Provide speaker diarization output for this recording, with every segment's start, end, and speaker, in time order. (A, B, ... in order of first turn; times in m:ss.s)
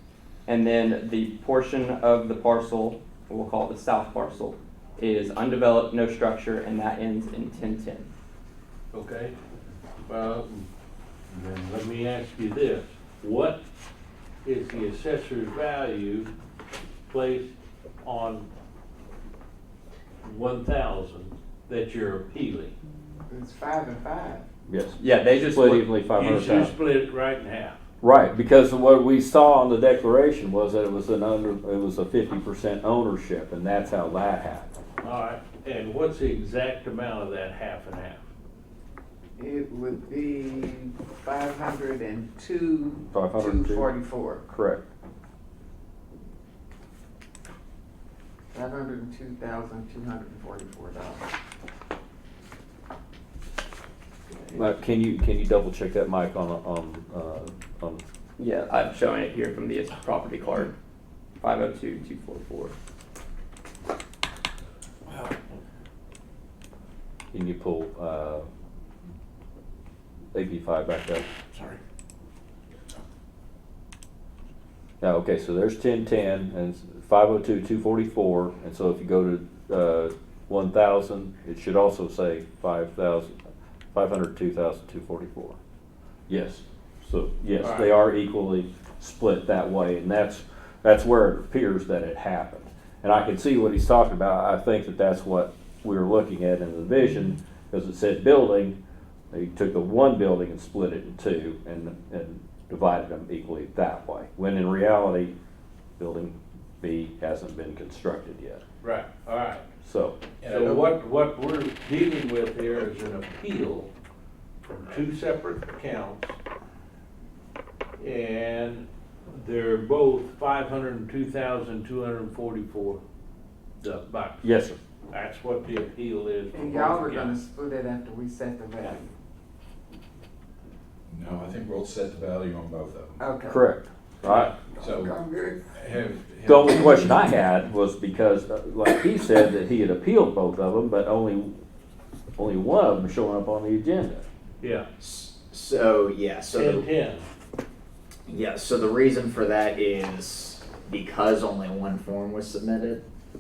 0:00.5-0:08.1 A
0:08.9-0:09.4 B
0:10.1-0:10.7 B
0:11.3-0:13.6 B
0:14.4-0:16.3 B
0:17.1-0:17.5 B
0:18.0-0:18.5 B
0:20.2-0:22.7 B
0:23.3-0:24.4 C
0:24.7-0:26.7 D
0:25.0-0:25.9 A
0:26.1-0:27.8 B
0:28.0-0:34.7 D
0:35.0-0:38.2 B
0:39.4-0:44.4 C
0:43.1-0:43.9 D
0:44.5-0:44.8 D
0:48.5-0:51.3 C
0:54.5-0:58.0 D
0:58.4-1:00.7 A
1:01.4-1:02.7 A
1:07.3-1:08.5 D
1:10.3-1:11.3 D
1:15.0-1:23.4 D
1:23.9-1:25.6 D
1:26.3-1:38.8 D
1:27.6-1:27.9 B
1:39.3-1:45.4 D
1:46.0-1:48.6 D
1:48.8-1:49.6 B
1:49.8-1:50.2 D
1:50.4-1:50.9 E
1:50.4-1:53.9 B
1:54.6-1:56.4 B
1:58.0-2:03.0 B
2:03.8-2:04.4 B
2:04.4-2:04.8 D
2:05.1-2:07.3 B
2:06.5-2:09.1 C
2:11.1-2:13.2 E
2:13.2-2:13.6 C
2:13.4-2:14.5 D
2:14.2-2:14.5 B
2:14.4-2:15.2 E
2:14.7-2:15.7 C
2:15.8-2:17.2 E
2:16.4-2:21.6 D
2:22.4-2:24.2 D
2:24.6-2:24.9 B
2:25.0-2:26.9 F
2:26.5-2:27.3 B
2:28.3-2:33.0 F